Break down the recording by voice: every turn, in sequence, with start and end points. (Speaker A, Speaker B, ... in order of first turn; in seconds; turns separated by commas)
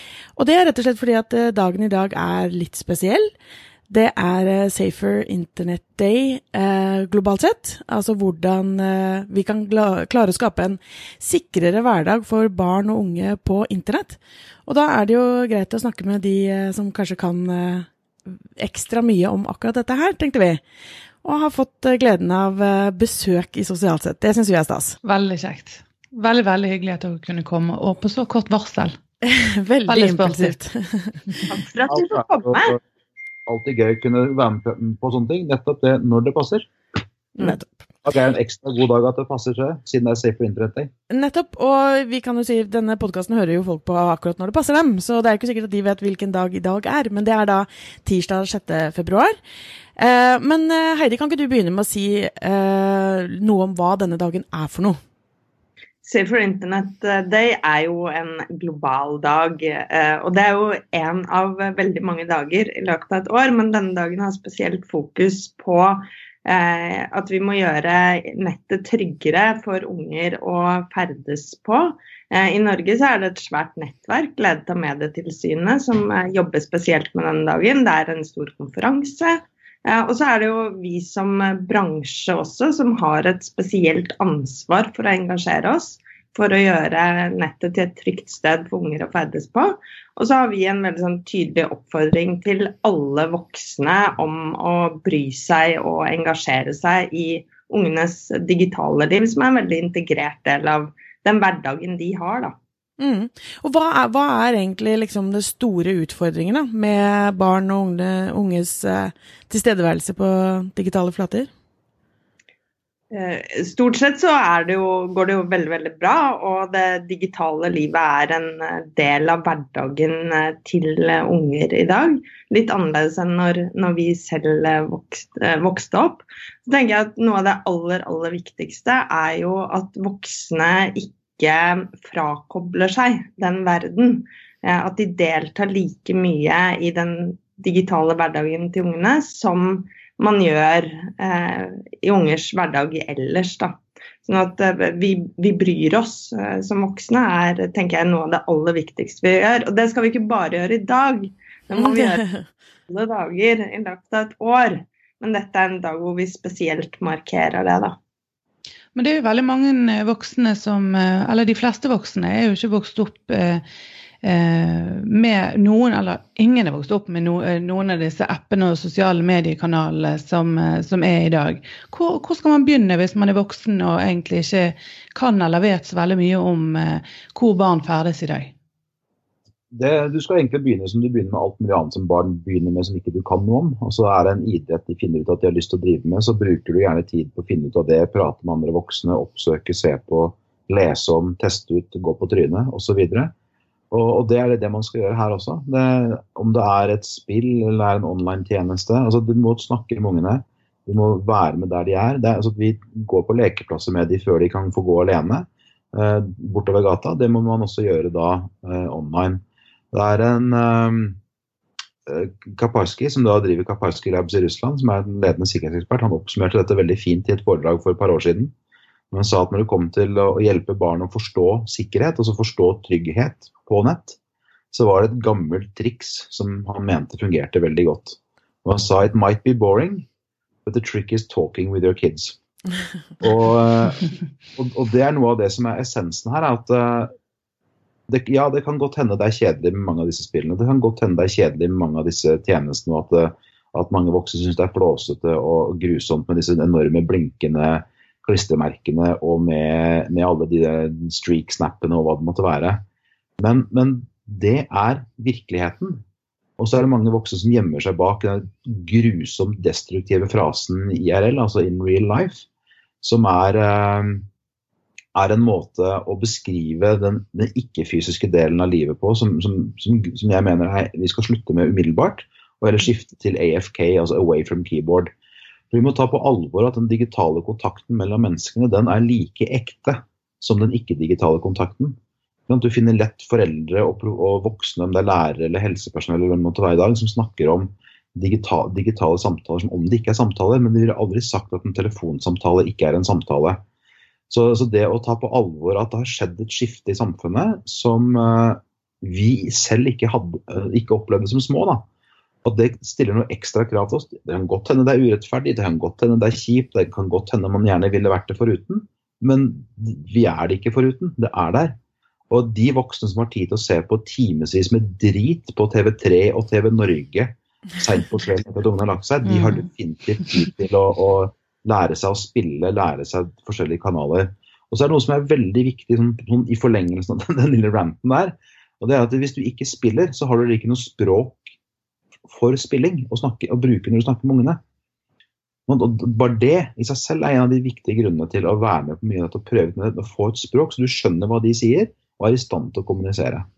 Speaker A: 0.4-3.3, Speaker A: 3.9-20.6, Speaker A: 21.2-25.0, Speaker B: 25.0-28.9, Speaker A: 29.2-31.2, Speaker B: 29.9-30.5, Speaker C: 31.5-32.8, Speaker D: 31.9-32.8, Speaker D: 33.5-36.7, Speaker A: 37.4-37.7, Speaker D: 38.0-40.9, Speaker A: 41.1-49.4, Speaker A: 50.0-55.0, Speaker C: 56.0-102.5, Speaker A: 103.0-111.5, Speaker C: 113.1-152.2, Speaker A: 151.8-152.4, Speaker C: 152.9-158.0, Speaker B: 158.9-163.6, Speaker B: 164.2-178.5, Speaker D: 179.7-193.3, Speaker D: 193.9-211.2, Speaker D: 212.1-218.5, Speaker D: 219.1-224.2, Speaker D: 224.7-230.1, Speaker D: 230.6-232.4, Speaker D: 233.2-237.1, Speaker D: 238.1-252.8, Speaker D: 253.4-256.0, Speaker D: 256.6-262.4, Speaker D: 263.0-264.2, Speaker D: 265.1-275.1, Speaker D: 275.7-282.0, Speaker D: 282.5-293.6, Speaker D: 294.3-301.9, Speaker D: 302.4-311.8, Speaker D: 312.3-331.5, Speaker B: 319.2-319.6, Speaker D: 332.3-334.6, Speaker D: 335.7-343.5